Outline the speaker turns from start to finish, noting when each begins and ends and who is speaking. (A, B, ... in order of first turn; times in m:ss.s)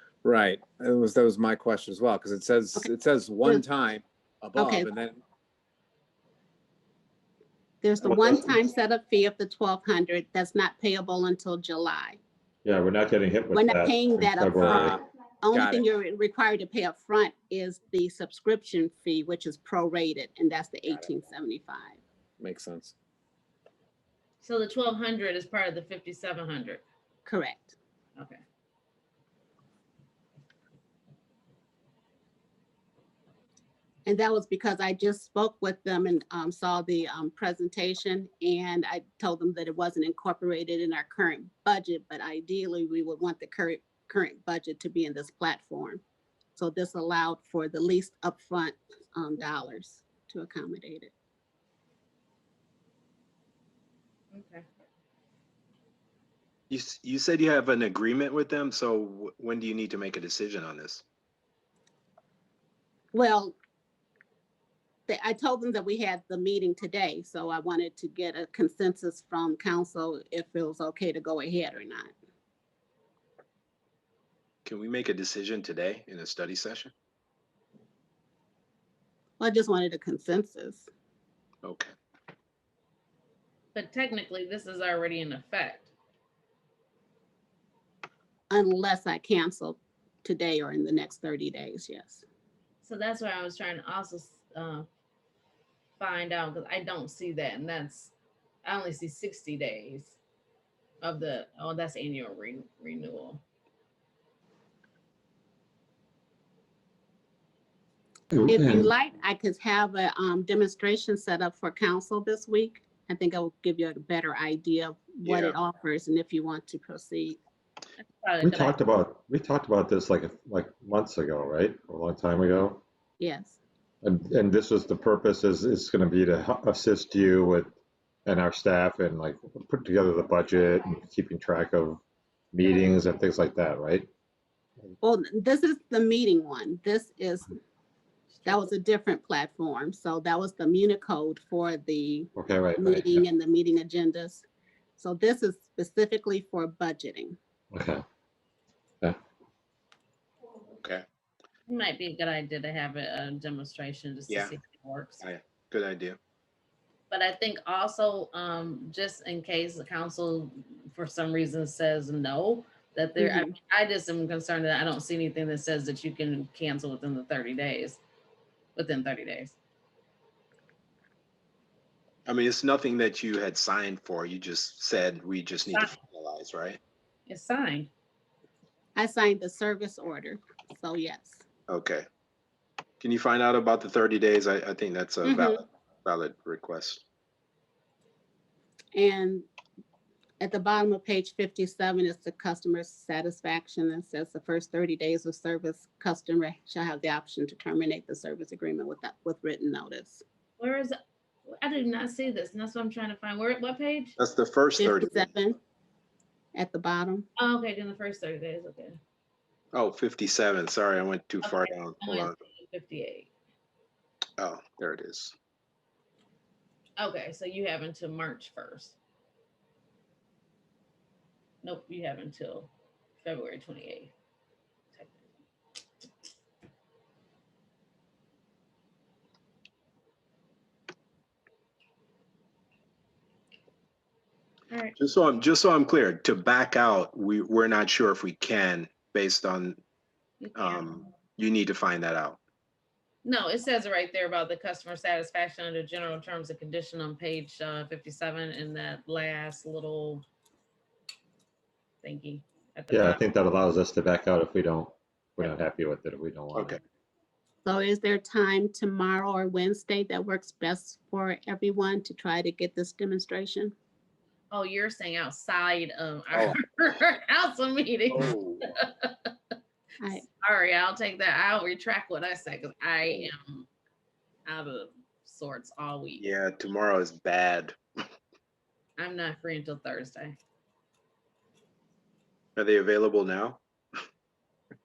0:00.2-0:05.2 A
0:04.6-0:04.9 B
0:07.8-0:12.2 B
0:08.1-0:08.4 A
0:12.6-0:15.0 C
0:13.5-0:22.0 B
0:14.6-0:15.8 A
0:22.4-0:22.9 A
0:24.4-0:26.8 D
0:27.3-0:27.8 B
0:34.1-0:46.0 B
0:46.6-0:51.1 B
0:54.3-0:54.6 D
0:56.7-1:01.0 E
1:03.1-1:03.6 B
1:05.1-1:12.1 B
1:14.6-1:16.9 E
1:19.4-1:20.9 B
1:21.6-1:21.9 E
1:23.7-1:25.9 D
1:28.5-1:32.2 B
1:32.8-1:34.9 D
1:36.0-1:38.1 D
1:38.6-1:40.2 D
1:41.0-1:43.4 D
1:48.3-1:48.9 C
1:48.5-1:57.4 B
1:55.2-1:55.6 E
1:58.0-1:58.8 D
1:58.4-2:02.8 C
2:03.2-2:03.6 B
2:04.0-2:07.7 C
2:08.3-2:14.1 C
2:15.0-2:17.6 B
2:18.4-2:24.5 B
2:22.4-2:23.2 C
2:25.0-2:27.4 B
2:27.7-2:28.0 C
2:31.7-2:35.2 D
2:34.3-2:34.5 E
2:35.2-2:36.2 E
2:37.1-2:48.0 D
2:43.2-2:43.5 B
2:48.8-2:49.6 D
2:52.3-2:56.8 E
2:55.7-2:56.0 D
2:57.3-2:57.9 D
2:59.0-3:01.4 B
3:01.7-3:02.0 E
3:03.0-3:07.0 E
3:05.2-3:05.6 B
3:09.0-3:09.4 B
3:10.4-3:20.2 B
3:20.6-3:21.0 D
3:21.5-3:24.2 D
3:24.2-3:25.3 E
3:24.8-3:25.6 B
3:26.6-3:27.3 B
3:27.4-3:29.0 D
3:29.7-3:32.4 E
3:31.4-3:33.3 D
3:34.4-3:35.3 E
3:37.0-3:39.0 D
3:41.6-3:42.7 D
3:43.2-3:44.1 D
3:44.9-3:45.3 D
3:55.0-3:59.8 E
4:00.4-4:01.0 D
4:00.6-4:02.4 E
4:03.2-4:10.2 D
4:12.0-4:13.2 D
4:12.9-4:16.8 C
4:16.5-4:16.8 E
4:17.6-4:23.7 B
4:24.5-4:29.3 D
4:26.3-4:26.6 E
4:28.1-4:28.7 E
4:30.1-4:33.7 D
4:34.5-4:36.2 D
4:36.2-4:37.8 E
4:39.0-4:40.4 D
4:42.6-4:43.6 E